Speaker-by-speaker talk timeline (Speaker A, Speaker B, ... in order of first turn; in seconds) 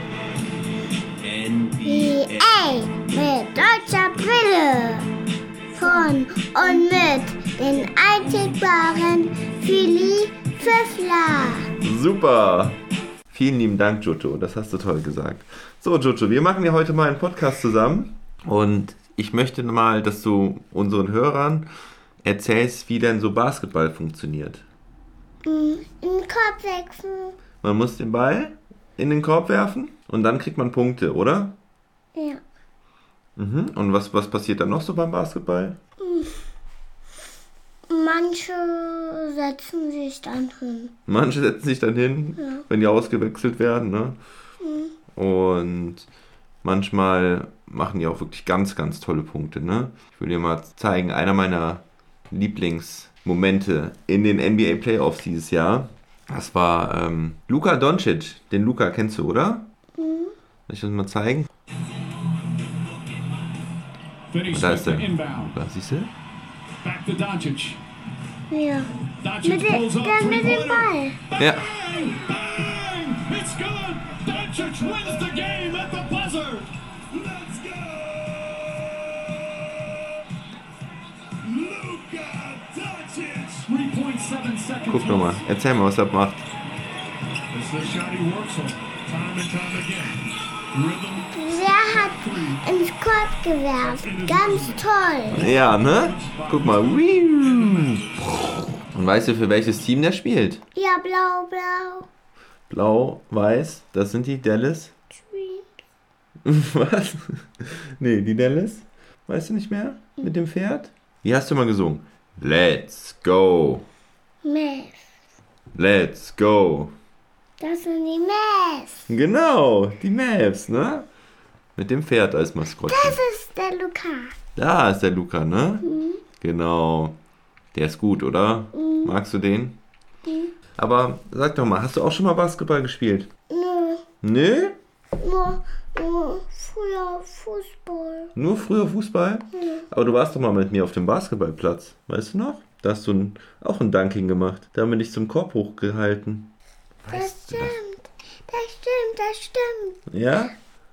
Speaker A: 1.2-2.3, 11.8-12.8, 13.3-21.7, 22.2-24.6, 27.6-31.6, 33.4-35.8, 41.1-44.2, 45.1-46.1, 46.6-59.7, 60.7-61.5, 64.5-66.1, 71.4-71.7, 84.9-86.5, 95.3-98.2, 98.9-100.6, 102.7-104.9, 106.4-113.9, 115.7-116.9, 119.1-121.1, 121.8-123.2, 124.5-125.8, 126.4-127.2, 127.7-129.8, 130.8-133.3, 134.2-134.8, 138.3-147.8, 150.1-150.5
Speaker B: 1.8-5.1, 5.7-11.7, 25.4-27.4, 32.1-32.4, 36.0-36.4, 37.9-40.9, 42.4-42.6, 44.6-44.9, 60.0-60.3, 68.5-68.9, 69.4-71.2, 91.3-95.5, 100.7-102.1, 105.1-105.7, 114.4-115.0, 117.6-119.0, 122.8-124.3, 125.8-126.2, 128.7-129.1, 130.2-130.5, 133.5-134.0, 135.2-138.3, 139.5-139.9, 147.1-150.0
Speaker C: 64.3-65.5, 66.8-67.8, 69.2-78.2, 81.4-85.4, 87.5-91.4, 92.0-92.6, 93.9-98.0